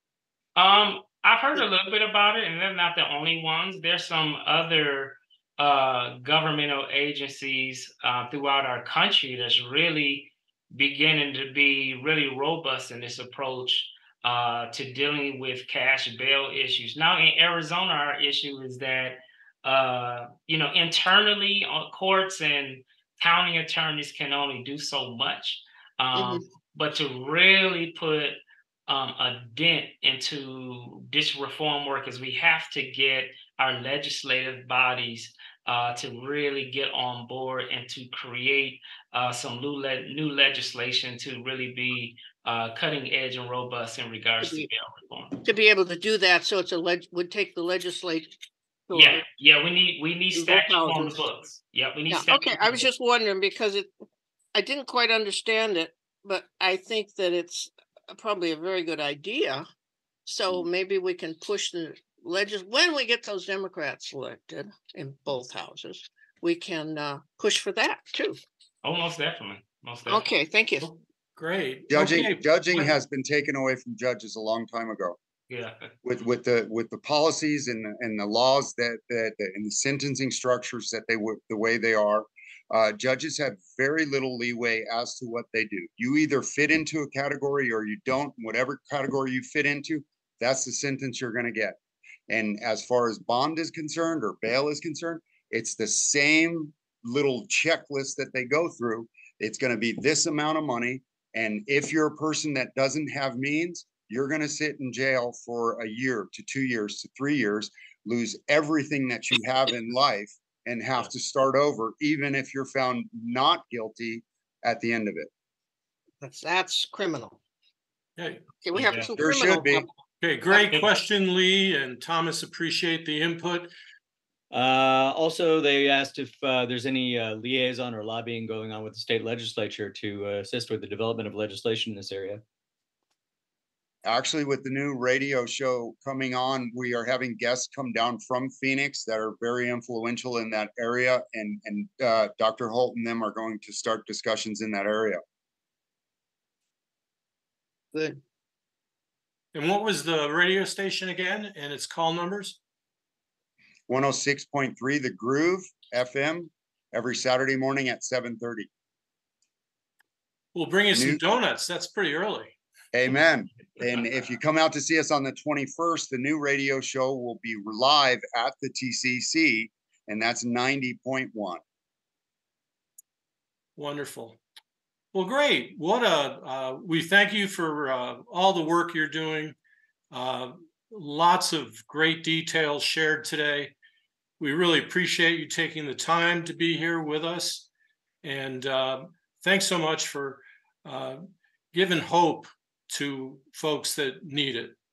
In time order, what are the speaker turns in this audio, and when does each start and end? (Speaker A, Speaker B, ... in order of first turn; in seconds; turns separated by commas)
Speaker A: 0.6-45.4, Speaker B: 26.1-26.4, Speaker B: 44.4-44.7, Speaker B: 45.4-48.3, Speaker B: 48.9-49.2, Speaker A: 48.9-52.9, Speaker B: 50.3-51.2, Speaker B: 52.1-53.9, Speaker B: 54.5-59.6, Speaker B: 60.2-68.4, Speaker A: 68.8-70.3, Speaker B: 70.0-70.9, Speaker C: 70.8-72.9, Speaker D: 71.9-75.2, Speaker A: 75.5-75.9, Speaker D: 76.0-91.8, Speaker D: 92.3-115.3, Speaker B: 116.2-117.4, Speaker C: 118.2-119.1, Speaker B: 118.6-120.0, Speaker D: 119.2-119.8, Speaker C: 120.2-123.7, Speaker E: 124.5-132.4, Speaker D: 134.0-145.2, Speaker B: 147.9-148.2, Speaker C: 149.5-152.6, Speaker D: 153.9-158.7, Speaker C: 160.5-162.5, Speaker D: 160.9-161.2, Speaker D: 162.9-171.6, Speaker C: 173.8-174.4, Speaker C: 175.1-179.6, Speaker C: 180.1-183.7, Speaker C: 184.4-187.7, Speaker C: 188.2-194.8